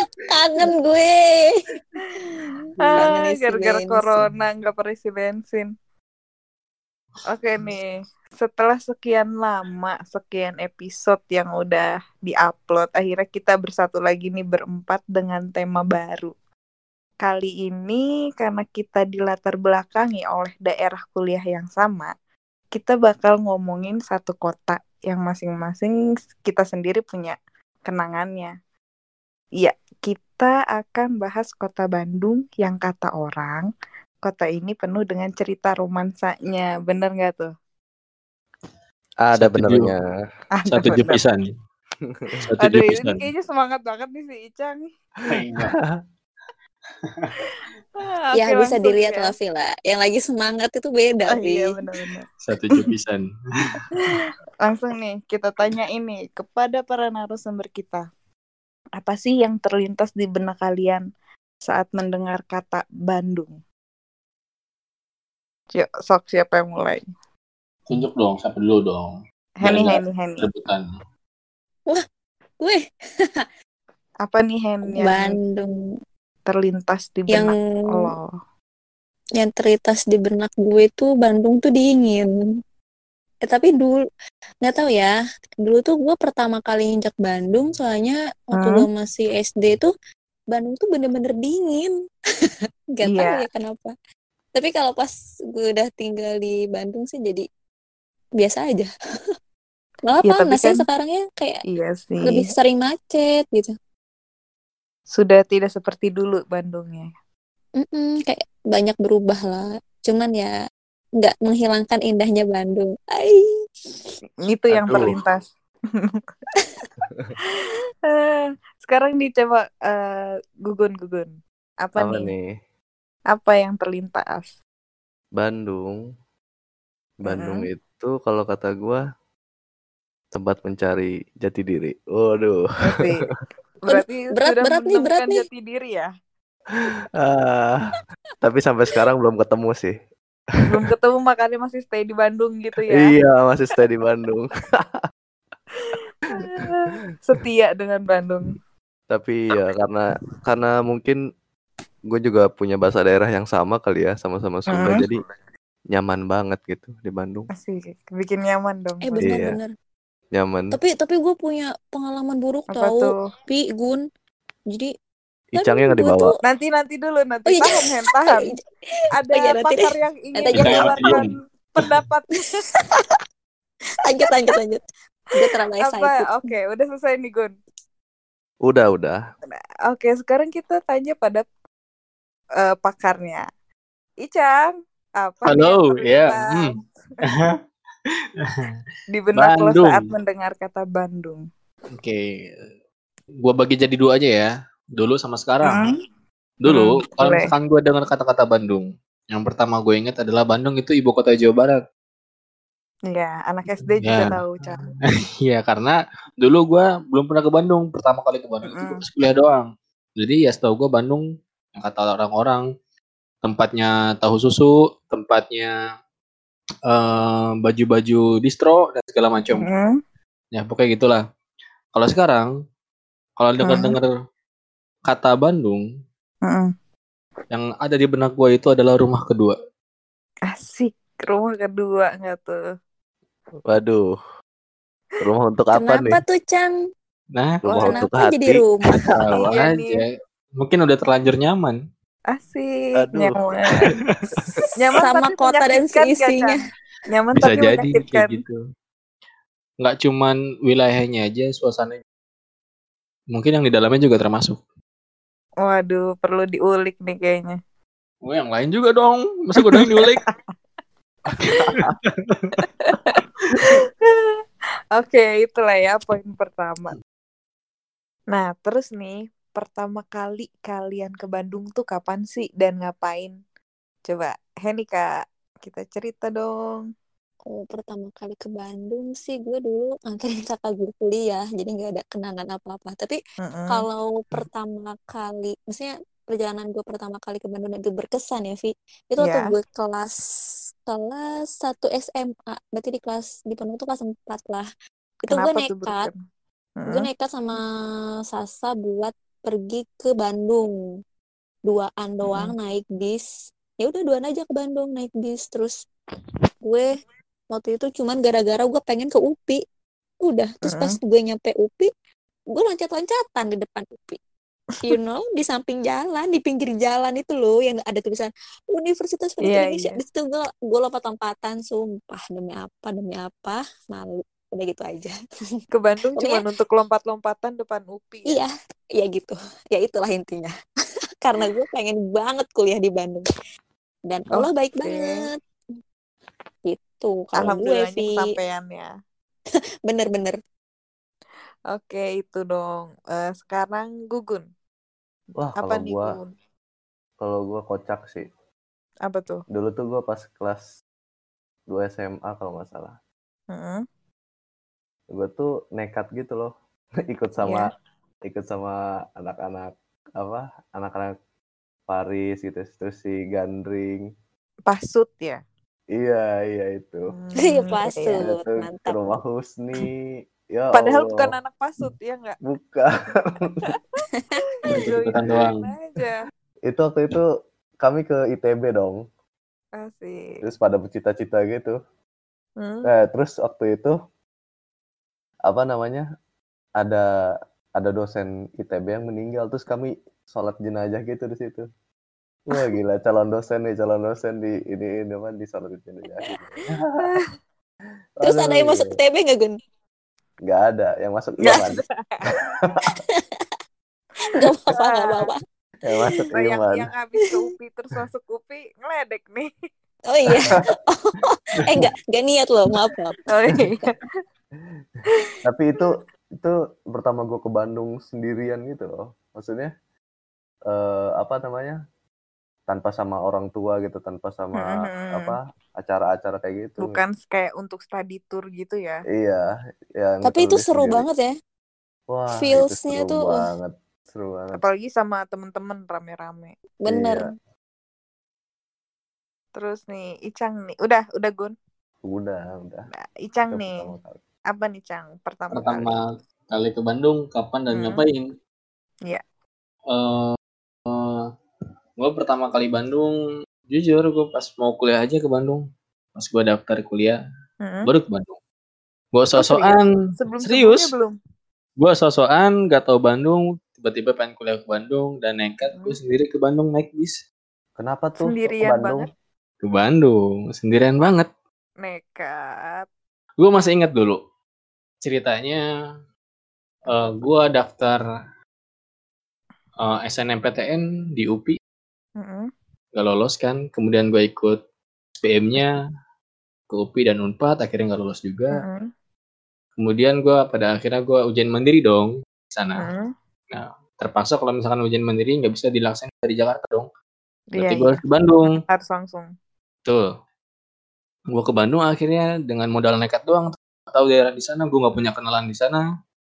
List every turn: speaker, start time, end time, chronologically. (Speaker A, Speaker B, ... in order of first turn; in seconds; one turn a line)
Speaker A: 0.2-1.6
Speaker B: 2.2-5.7
Speaker A: 2.4-4.3
Speaker B: 7.3-16.3
Speaker B: 17.2-22.1
Speaker B: 22.7-27.4
Speaker B: 27.9-28.5
Speaker B: 29.6-33.7
Speaker B: 34.2-37.5
Speaker C: 39.2-40.0
Speaker D: 39.4-39.9
Speaker B: 40.5-41.2
Speaker D: 40.7-41.5
Speaker C: 42.0-42.4
Speaker D: 42.5-43.3
Speaker B: 42.6-44.9
Speaker C: 45.3-46.0
Speaker D: 45.3-45.8
Speaker D: 47.0-47.3
Speaker B: 48.0-49.3
Speaker A: 48.3-51.8
Speaker B: 51.3-52.3
Speaker D: 52.4-53.2
Speaker B: 54.0-58.0
Speaker B: 59.0-61.0
Speaker B: 61.6-63.6
Speaker B: 65.7-67.1
Speaker D: 67.9-70.9
Speaker B: 69.6-70.5
Speaker A: 72.6-73.5
Speaker B: 74.2-75.4
Speaker A: 74.9-75.7
Speaker B: 76.5-78.3
Speaker A: 77.3-78.1
Speaker A: 79.4-82.3
Speaker A: 83.4-84.0
Speaker A: 84.6-85.1
Speaker A: 85.6-89.9
Speaker B: 88.5-88.8
Speaker A: 90.5-91.9
Speaker A: 92.9-93.9
Speaker B: 93.0-93.4
Speaker A: 94.5-97.5
Speaker A: 98.4-98.9
Speaker A: 100.0-101.6
Speaker B: 100.2-100.8
Speaker B: 101.7-102.5
Speaker A: 102.2-103.7
Speaker B: 105.1-107.1
Speaker A: 107.8-110.5
Speaker A: 111.2-113.5
Speaker B: 114.4-115.4
Speaker D: 114.8-115.2
Speaker C: 114.9-115.2
Speaker A: 116.6-116.8
Speaker B: 117.5-122.3
Speaker C: 122.0-122.5
Speaker B: 123.3-124.5
Speaker C: 125.4-126.0
Speaker C: 127.2-129.0
Speaker B: 127.3-127.7
Speaker C: 130.3-133.0
Speaker B: 132.8-133.3
Speaker B: 133.8-136.1
Speaker A: 133.9-135.4
Speaker C: 136.8-139.9
Speaker B: 140.7-143.1
Speaker C: 142.9-145.0
Speaker B: 145.8-148.5
Speaker C: 149.1-151.2
Speaker C: 152.1-155.2
Speaker B: 154.7-155.1
Speaker C: 155.9-157.5
Speaker B: 157.5-159.3
Speaker A: 159.0-159.7
Speaker C: 159.2-159.6
Speaker C: 160.3-160.8
Speaker A: 160.7-164.0
Speaker B: 162.7-163.1
Speaker C: 165.5-166.3
Speaker A: 165.6-166.4
Speaker B: 166.4-168.5
Speaker A: 167.5-168.6
Speaker B: 169.2-172.6
Speaker A: 169.3-171.2
Speaker D: 170.5-171.3
Speaker A: 172.8-173.2
Speaker A: 174.0-174.8
Speaker A: 175.3-176.5
Speaker B: 175.8-177.6
Speaker C: 178.7-179.2
Speaker B: 179.5-181.4
Speaker B: 182.6-183.4
Speaker B: 184.2-186.8
Speaker D: 185.5-186.7
Speaker D: 187.2-187.5
Speaker D: 188.4-188.7
Speaker B: 189.1-191.4
Speaker D: 189.3-190.1
Speaker D: 191.9-192.6
Speaker D: 193.4-195.8
Speaker B: 195.7-196.0
Speaker D: 196.6-201.8
Speaker B: 196.7-197.5
Speaker B: 203.1-204.8
Speaker D: 203.8-204.6
Speaker D: 205.2-212.6
Speaker B: 208.7-209.0
Speaker D: 213.4-215.8
Speaker D: 216.9-219.7
Speaker B: 219.6-220.0
Speaker D: 220.5-221.2
Speaker D: 221.9-222.5
Speaker D: 223.4-224.1
Speaker B: 223.6-224.0
Speaker D: 225.1-225.8
Speaker B: 226.4-226.7
Speaker D: 227.5-229.6
Speaker B: 230.5-232.6
Speaker C: 233.7-234.1
Speaker C: 235.2-236.2
Speaker A: 235.7-236.7
Speaker D: 237.3-237.6
Speaker C: 237.6-239.4
Speaker B: 237.7-238.0
Speaker A: 237.8-239.1
Speaker D: 238.9-241.8
Speaker B: 239.4-240.0
Speaker B: 242.3-243.9
Speaker C: 243.0-243.4
Speaker B: 244.8-246.6
Speaker A: 244.9-246.6
Speaker B: 247.1-248.4
Speaker D: 247.4-248.6
Speaker D: 249.8-252.0
Speaker D: 253.3-254.6
Speaker B: 255.6-257.6
Speaker D: 258.2-260.2
Speaker B: 259.6-260.1
Speaker C: 261.3-261.9
Speaker B: 261.4-261.7
Speaker D: 261.7-262.5
Speaker B: 262.8-263.8
Speaker B: 265.0-266.9
Speaker B: 268.3-273.4
Speaker B: 274.1-276.9
Speaker A: 277.5-290.2
Speaker B: 283.4-283.9
Speaker B: 289.2-289.5
Speaker A: 290.9-294.7
Speaker A: 295.2-296.1
Speaker B: 295.3-296.2
Speaker B: 296.8-297.1
Speaker A: 296.9-297.6
Speaker A: 298.3-300.7
Speaker A: 301.7-303.2
Speaker B: 302.3-302.5
Speaker A: 303.8-305.7
Speaker A: 306.6-306.9
Speaker A: 307.5-309.6
Speaker A: 310.2-311.9
Speaker B: 310.7-310.9
Speaker A: 312.5-314.2
Speaker A: 314.8-325.1
Speaker B: 319.4-320.0
Speaker B: 325.7-328.4
Speaker A: 326.1-326.4
Speaker A: 328.3-330.5
Speaker A: 331.2-333.3
Speaker A: 334.1-335.4
Speaker B: 334.4-335.2
Speaker A: 336.6-338.2
Speaker B: 337.3-338.9
Speaker A: 339.9-340.4
Speaker B: 341.7-344.4
Speaker C: 345.4-346.1
Speaker B: 345.6-346.3
Speaker C: 347.2-348.3
Speaker B: 349.1-349.4
Speaker C: 349.5-350.6
Speaker C: 351.7-352.9
Speaker B: 353.5-353.8
Speaker C: 355.1-356.5
Speaker C: 357.0-357.7
Speaker B: 357.4-357.7
Speaker C: 358.2-361.1
Speaker C: 361.9-364.1
Speaker B: 364.7-365.4
Speaker C: 365.9-367.1
Speaker B: 367.1-368.2
Speaker A: 367.4-369.0
Speaker C: 368.1-371.3
Speaker B: 370.7-372.4
Speaker C: 372.4-373.7
Speaker B: 373.7-374.0
Speaker B: 374.6-376.2
Speaker D: 374.6-375.6
Speaker C: 376.7-377.3
Speaker C: 377.8-379.0
Speaker B: 379.8-380.4
Speaker C: 380.4-381.8
Speaker B: 382.6-382.9
Speaker C: 382.8-383.9
Speaker C: 385.4-386.1
Speaker C: 386.8-387.0
Speaker C: 387.8-391.6
Speaker C: 392.5-397.0
Speaker B: 397.0-397.3
Speaker C: 398.2-399.0
Speaker A: 398.2-399.6
Speaker C: 400.4-402.9
Speaker B: 401.4-402.3
Speaker A: 403.0-403.4
Speaker A: 404.3-405.4
Speaker B: 404.4-405.3
Speaker C: 405.8-406.9
Speaker B: 406.3-409.5
Speaker A: 410.1-413.2
Speaker B: 413.3-414.1
Speaker C: 415.4-419.7
Speaker C: 420.7-421.8
Speaker C: 422.7-427.0
Speaker B: 424.6-425.3
Speaker B: 426.8-429.0
Speaker C: 429.1-431.0
Speaker A: 430.2-431.3
Speaker C: 432.1-434.6
Speaker A: 432.3-433.4
Speaker B: 434.5-436.5
Speaker A: 436.8-437.3
Speaker C: 436.9-437.3
Speaker B: 439.6-441.5
Speaker C: 442.0-442.9
Speaker B: 443.2-443.9
Speaker C: 443.5-444.2
Speaker B: 444.5-446.0
Speaker D: 445.5-448.3
Speaker B: 447.7-448.0
Speaker D: 449.9-451.3
Speaker D: 452.0-453.2
Speaker D: 453.7-455.6
Speaker D: 456.1-457.2
Speaker B: 457.6-457.9
Speaker D: 457.9-458.4
Speaker D: 459.1-459.9
Speaker B: 459.4-461.1
Speaker D: 460.4-460.9
Speaker D: 461.8-467.2
Speaker C: 467.8-469.1
Speaker B: 468.2-469.1
Speaker D: 469.6-471.3
Speaker B: 471.8-472.9
Speaker D: 473.4-474.2
Speaker D: 475.0-475.6
Speaker D: 476.9-478.0
Speaker D: 479.8-481.6
Speaker B: 482.2-482.5
Speaker D: 482.9-484.6
Speaker D: 485.2-485.8
Speaker D: 486.7-488.6
Speaker B: 488.5-488.9
Speaker D: 489.8-492.9
Speaker B: 492.8-493.1
Speaker D: 493.5-496.9
Speaker B: 497.5-499.3
Speaker D: 497.6-498.6
Speaker D: 501.3-505.8